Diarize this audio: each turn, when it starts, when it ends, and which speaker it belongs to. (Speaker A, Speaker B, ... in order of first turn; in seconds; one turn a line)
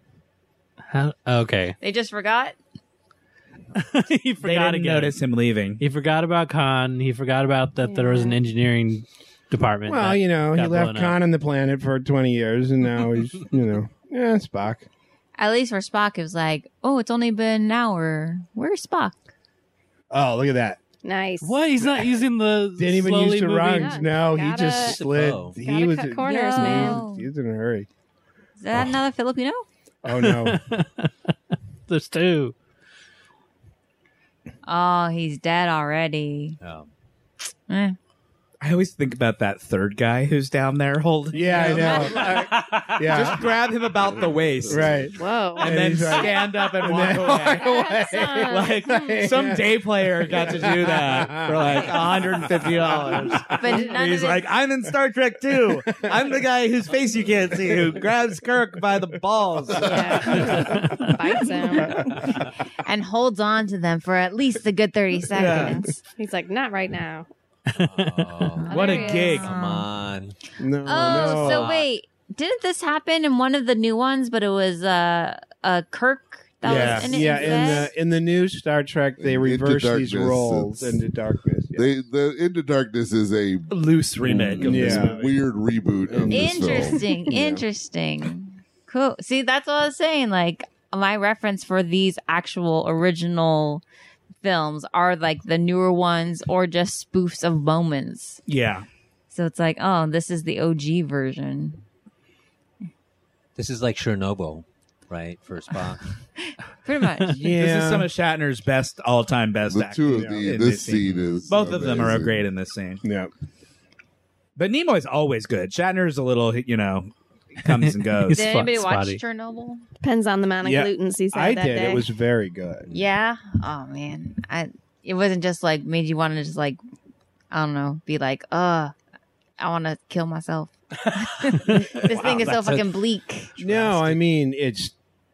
Speaker A: 0.9-1.8
Speaker B: 1.8-2.5
Speaker A: 3.7-5.2
Speaker C: 4.4-5.8
Speaker A: 5.8-11.2
Speaker D: 8.0-8.3
Speaker E: 9.9-14.9
Speaker B: 15.4-19.2
Speaker E: 20.1-20.8
Speaker D: 21.0-21.6
Speaker A: 21.4-24.0
Speaker E: 22.8-27.9
Speaker D: 23.7-25.0
Speaker F: 24.8-25.6
Speaker D: 25.6-27.0
Speaker B: 26.2-27.3
Speaker B: 28.6-29.6
Speaker E: 30.0-30.6
Speaker A: 30.1-31.1
Speaker A: 31.9-32.5
Speaker B: 34.6-36.6
Speaker F: 36.6-36.9
Speaker B: 37.7-38.0
Speaker C: 38.6-42.3
Speaker E: 41.3-43.5
Speaker F: 42.2-43.0
Speaker C: 43.0-47.6
Speaker G: 44.1-45.0
Speaker E: 44.7-53.6
Speaker D: 45.1-46.7
Speaker D: 47.4-49.3
Speaker C: 48.4-60.5
Speaker B: 53.5-54.4
Speaker E: 55.8-56.3
Speaker E: 59.8-61.0
Speaker D: 59.9-62.2
Speaker B: 62.8-66.0
Speaker C: 65.3-65.8
Speaker D: 65.5-67.3
Speaker A: 67.7-68.5
Speaker F: 67.7-70.3
Speaker B: 68.6-69.9
Speaker D: 68.7-69.4
Speaker C: 68.7-69.5
Speaker E: 70.6-71.7
Speaker B: 70.8-77.9
Speaker F: 71.0-71.9
Speaker C: 76.6-77.2
Speaker G: 76.7-77.0
Speaker E: 76.7-81.9
Speaker G: 79.2-81.0
Speaker G: 81.7-83.7
Speaker C: 83.7-85.3
Speaker G: 84.3-87.0
Speaker E: 84.5-85.2
Speaker E: 86.1-87.6
Speaker B: 86.3-93.8
Speaker B: 94.4-98.4
Speaker C: 98.5-98.8
Speaker B: 99.3-101.8
Speaker F: 103.5-106.0
Speaker B: 106.4-107.4
Speaker E: 107.4-108.1
Speaker C: 107.4-113.0
Speaker G: 109.7-112.5
Speaker E: 110.1-110.6
Speaker E: 113.0-113.3
Speaker C: 114.6-118.5
Speaker A: 117.7-119.2
Speaker B: 118.3-119.8
Speaker D: 120.0-122.1
Speaker E: 120.6-122.9
Speaker B: 122.9-126.8
Speaker B: 127.5-128.9
Speaker B: 129.6-133.5
Speaker C: 131.9-133.0
Speaker E: 133.6-134.9
Speaker C: 133.6-134.2